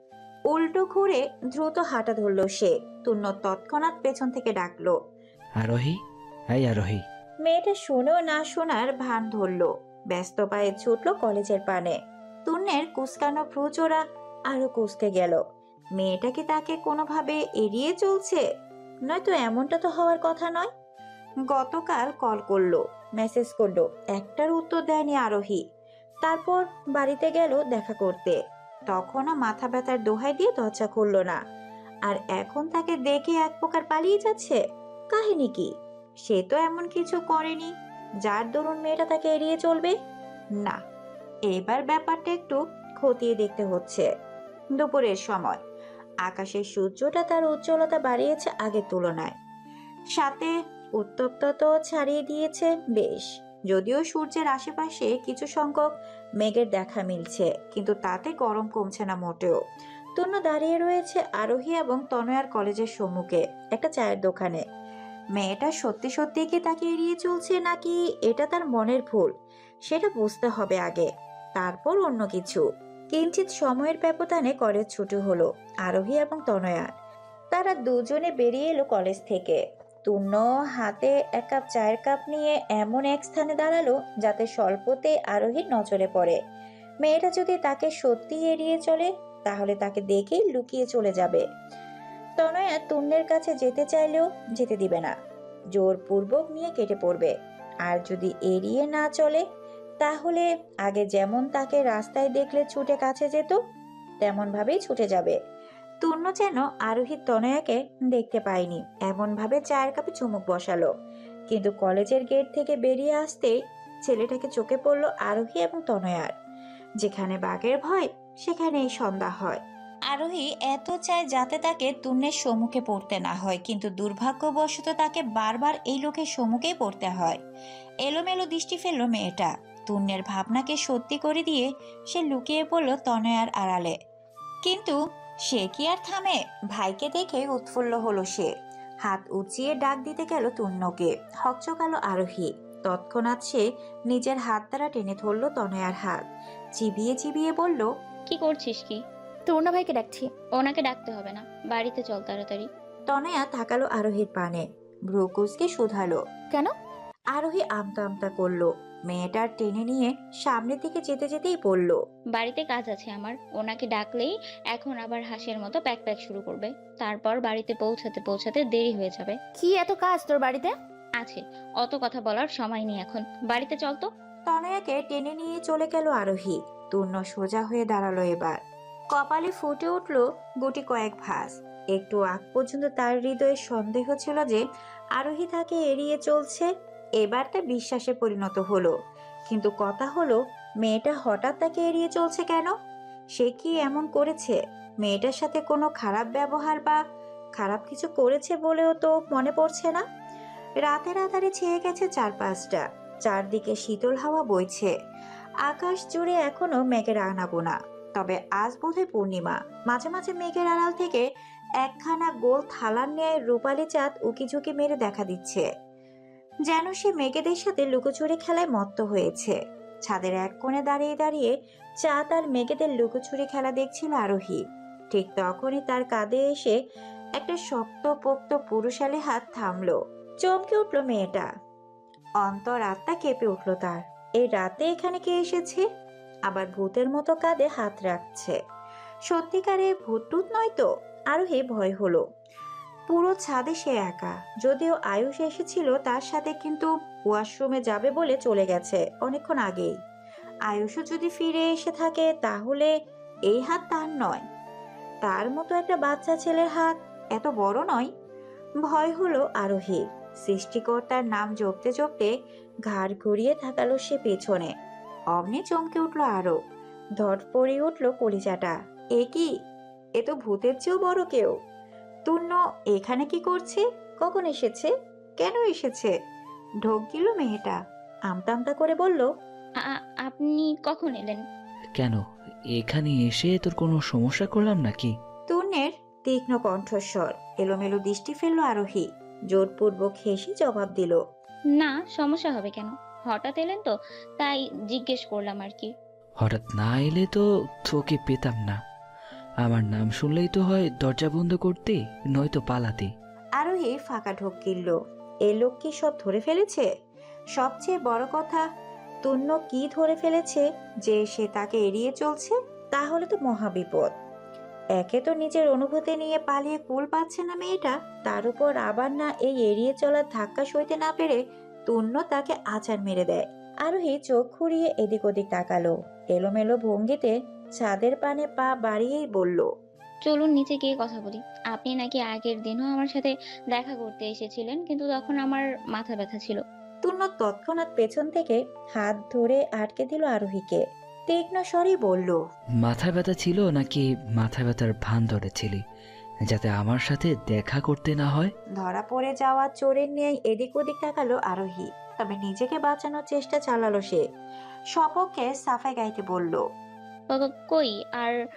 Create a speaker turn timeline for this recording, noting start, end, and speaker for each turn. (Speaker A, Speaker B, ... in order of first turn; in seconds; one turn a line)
Speaker A: 0.5-5.0
Speaker B: 5.6-6.0
Speaker B: 6.5-7.0
Speaker A: 7.4-15.4
Speaker A: 16.0-18.4
Speaker A: 19.1-20.7
Speaker A: 21.5-25.6
Speaker A: 26.2-28.4
Speaker A: 28.9-31.4
Speaker A: 32.1-34.6
Speaker A: 35.1-35.7
Speaker A: 36.2-37.7
Speaker A: 38.2-39.9
Speaker A: 41.5-44.1
Speaker A: 44.8-45.6
Speaker A: 46.2-49.3
Speaker A: 50.1-55.9
Speaker A: 56.4-59.6
Speaker A: 60.1-64.6
Speaker A: 65.3-69.3
Speaker A: 69.9-76.9
Speaker A: 77.5-86.4
Speaker A: 87.0-91.4
Speaker A: 92.4-95.1
Speaker A: 95.7-97.3
Speaker A: 97.8-99.4
Speaker A: 100.0-103.6
Speaker A: 104.2-105.3
Speaker A: 106.0-110.9
Speaker A: 111.5-116.3
Speaker A: 117.0-127.4
Speaker A: 128.0-133.9
Speaker A: 134.6-135.0
Speaker A: 135.5-138.5
Speaker A: 139.0-146.2
Speaker A: 146.8-147.9
Speaker C: 148.3-149.0
Speaker D: 149.5-150.3
Speaker C: 150.6-152.7
Speaker A: 153.1-156.2
Speaker A: 157.3-162.0
Speaker C: 162.3-169.4
Speaker D: 169.6-170.7
Speaker C: 171.2-174.1
Speaker A: 174.5-178.6
Speaker A: 179.1-184.6
Speaker A: 185.2-186.7
Speaker A: 187.2-188.9
Speaker A: 189.5-192.7
Speaker A: 193.3-197.0
Speaker A: 197.6-200.0
Speaker A: 200.8-204.9
Speaker A: 205.6-211.2
Speaker A: 211.8-215.7
Speaker A: 216.7-226.8
Speaker A: 227.4-231.5
Speaker A: 232.4-235.8
Speaker A: 236.5-238.6
Speaker A: 239.3-242.2
Speaker A: 243.1-249.9
Speaker A: 250.7-252.9
Speaker A: 253.5-254.4
Speaker A: 255.2-258.1
Speaker A: 258.8-262.3
Speaker A: 262.9-264.7
Speaker A: 265.3-266.6
Speaker A: 267.2-269.5
Speaker A: 270.2-271.5
Speaker A: 272.2-276.1
Speaker A: 276.8-279.3
Speaker C: 279.8-281.4
Speaker B: 282.7-285.1
Speaker A: 285.5-291.2
Speaker C: 291.8-295.9
Speaker B: 296.4-298.8
Speaker B: 299.6-303.1
Speaker A: 303.6-306.9
Speaker A: 307.6-308.6
Speaker A: 309.2-314.1
Speaker A: 314.9-329.7
Speaker C: 330.2-336.6
Speaker A: 337.0-342.4
Speaker B: 342.8-345.8
Speaker B: 346.5-348.5
Speaker A: 348.8-354.2
Speaker A: 354.9-356.6
Speaker C: 357.3-358.3